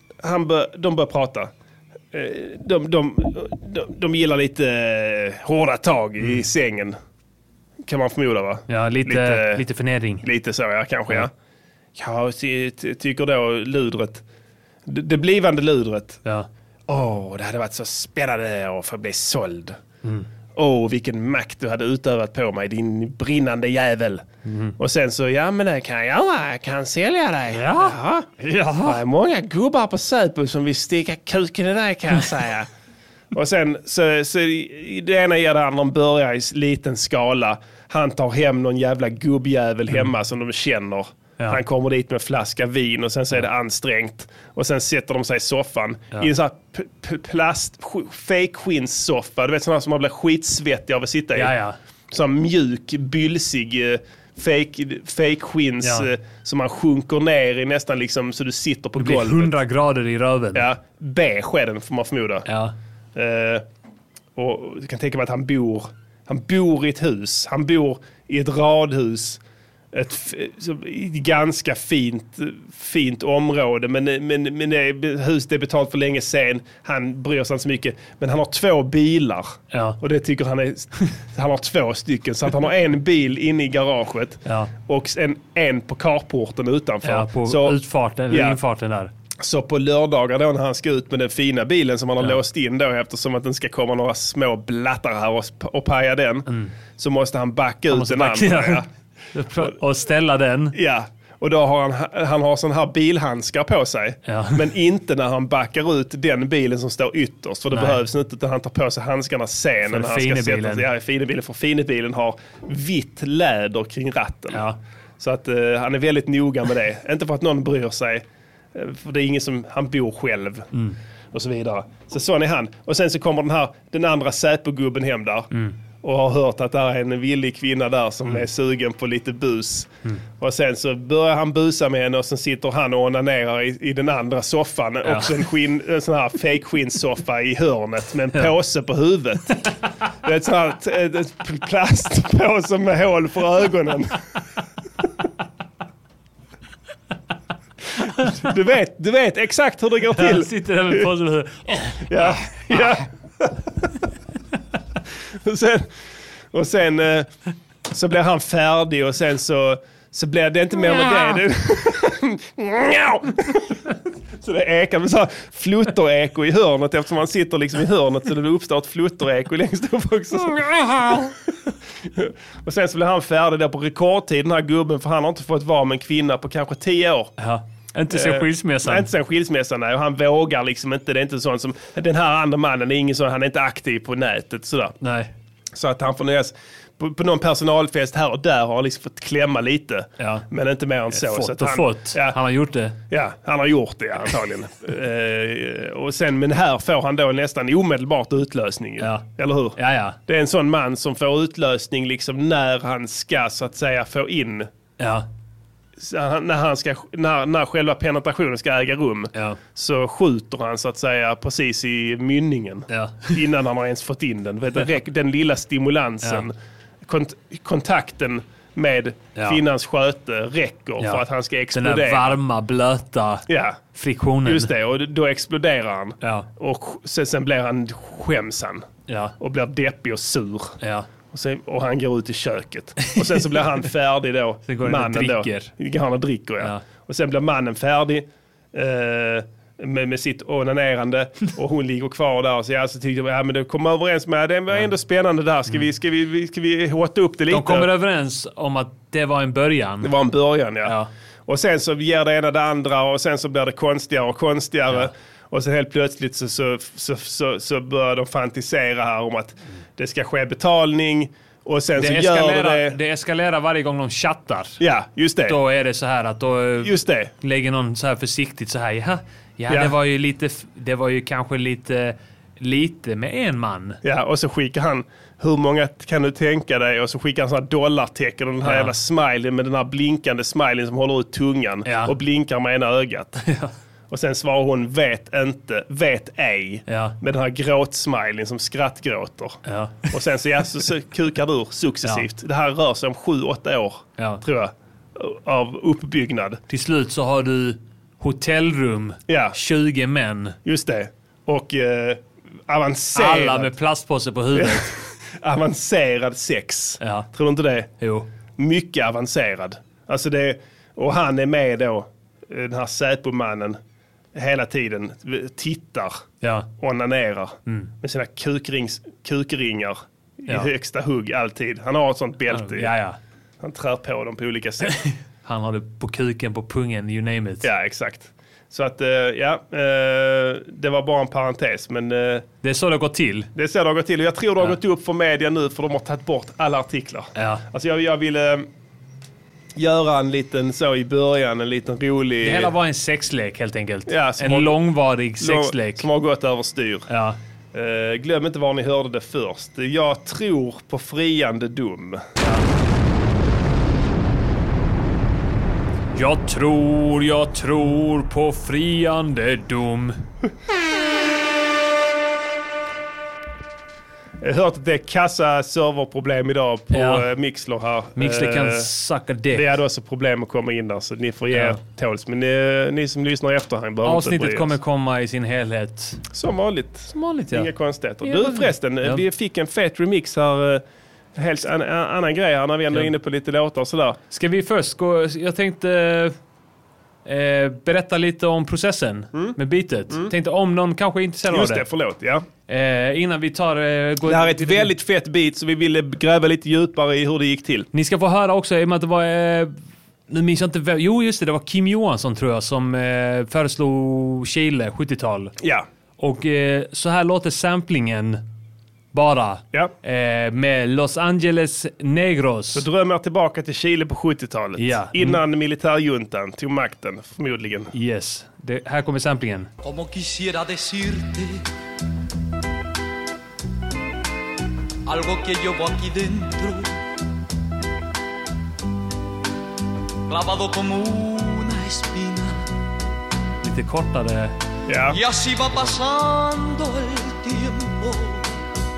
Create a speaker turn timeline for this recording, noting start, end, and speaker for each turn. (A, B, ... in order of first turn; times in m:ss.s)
0:00.2-0:01.5 A
0:02.1-0:07.0 A
0:07.8-0:09.6 A
0:08.7-0:10.2 B
0:10.2-0:11.3 A
0:12.0-0:14.2 A
0:14.9-0:16.2 A
0:16.9-0:19.8 A
0:20.6-0:24.2 A
0:24.4-0:24.8 B
0:24.8-0:28.3 A
0:27.5-0:29.0 B
0:28.8-0:32.7 A
0:33.3-0:51.5 A
0:51.3-0:51.8 B
0:52.1-0:59.5 A
0:55.8-0:56.1 B
0:59.0-1:00.7 B
1:00.5-1:02.4 A
1:02.5-1:02.7 B
1:03.1-1:03.6 A
1:04.4-1:09.4 A
1:09.9-1:27.8 A
1:19.7-1:20.0 B
1:24.4-1:24.7 B
1:27.0-1:29.1 B
1:28.3-1:28.6 A
1:29.4-1:38.8 A
1:36.5-1:36.7 B
1:37.9-1:40.8 B
1:40.7-1:54.6 A
1:44.3-1:44.6 B
1:47.7-1:48.0 B
1:49.9-1:50.9 B
1:54.5-1:54.8 B
1:55.2-1:58.2 A
1:58.7-2:00.7 A
2:01.3-2:05.5 A
2:06.0-2:19.6 A
2:15.0-2:15.4 B
2:20.2-2:24.2 A
2:28.2-2:31.0 A
2:30.1-2:33.0 B
2:32.0-2:33.5 A
2:35.4-2:35.9 A
2:36.5-2:37.3 A
2:37.9-2:43.8 A
2:44.4-2:51.4 A
2:52.2-2:57.3 A
2:57.4-2:59.1 B
2:58.1-3:04.9 A
3:05.0-3:05.3 B
3:05.7-3:12.4 A
3:10.2-3:10.4 B
3:11.1-3:13.0 B
3:13.1-3:24.7 A
3:19.0-3:20.2 B
3:25.0-3:25.3 B
3:26.0-3:36.5 A
3:32.9-3:33.4 B
3:37.0-3:42.4 A
3:41.0-3:44.7 B
3:43.5-3:43.8 A
3:44.4-3:48.9 A
3:46.2-3:46.5 B
3:49.1-3:49.3 B
3:49.4-3:50.8 A
3:50.8-3:51.1 B
3:51.3-4:07.9 A
3:53.1-3:53.6 B
3:54.7-3:55.7 B
4:07.5-4:10.1 B
4:10.0-4:10.9 A
4:10.8-4:11.1 B
4:11.5-4:23.0 A
4:22.0-4:24.8 B
4:24.8-4:25.6 A
4:25.5-4:34.0 B
4:26.8-4:27.3 A
4:29.7-4:29.9 A
4:34.0-4:43.4 A
4:38.6-4:38.9 B
4:41.8-4:42.1 B
4:43.4-4:43.7 B
4:44.1-4:56.6 A
4:46.9-4:47.2 B
4:49.6-4:50.1 B
4:54.2-4:54.4 B
4:56.7-5:00.6 B
4:59.3-4:59.6 A
5:00.6-5:03.7 A
5:03.1-5:04.9 B
5:04.6-5:07.9 A
5:07.0-5:07.3 B
5:08.0-5:08.3 B
5:08.6-5:13.8 A
5:14.3-5:16.2 A
5:16.4-5:16.7 B
5:16.8-5:22.9 A
5:22.5-5:23.2 B
5:23.6-5:25.0 A
5:24.9-5:27.7 B
5:27.6-5:32.4 A
5:32.6-5:33.5 B
5:33.5-5:38.7 A
5:37.4-5:37.6 B
5:39.8-5:42.7 A
5:42.4-5:46.1 B
5:44.1-5:44.8 A
5:45.4-5:47.1 A
5:47.1-5:47.4 B
5:47.7-5:52.2 A
5:52.4-5:52.7 B
5:56.1-6:00.2 B
6:04.4-6:08.9 A
6:06.9-6:07.3 B
6:08.2-6:09.7 B
6:09.5-6:14.7 A
6:11.5-6:11.8 B
6:14.0-6:16.2 B
6:16.3-6:20.8 A
6:17.1-6:17.7 B
6:18.2-6:19.2 B
6:21.4-6:24.2 A
6:24.3-6:26.3 B
6:27.2-6:31.8 B
6:31.5-6:32.4 A
6:32.7-6:34.9 B
6:34.2-6:37.9 A
6:37.9-6:39.7 B
6:40.3-6:45.6 B
6:45.6-6:45.8 A
6:46.2-6:48.4 B
6:49.1-6:52.8 B
6:52.7-6:57.9 A
6:54.8-6:55.4 B
6:57.9-6:59.7 B
6:59.8-7:01.6 C
7:05.0-7:06.9 C
7:10.3-7:12.6 C
7:13.6-7:14.6 B
7:14.9-7:15.2 A
7:15.1-7:18.5 C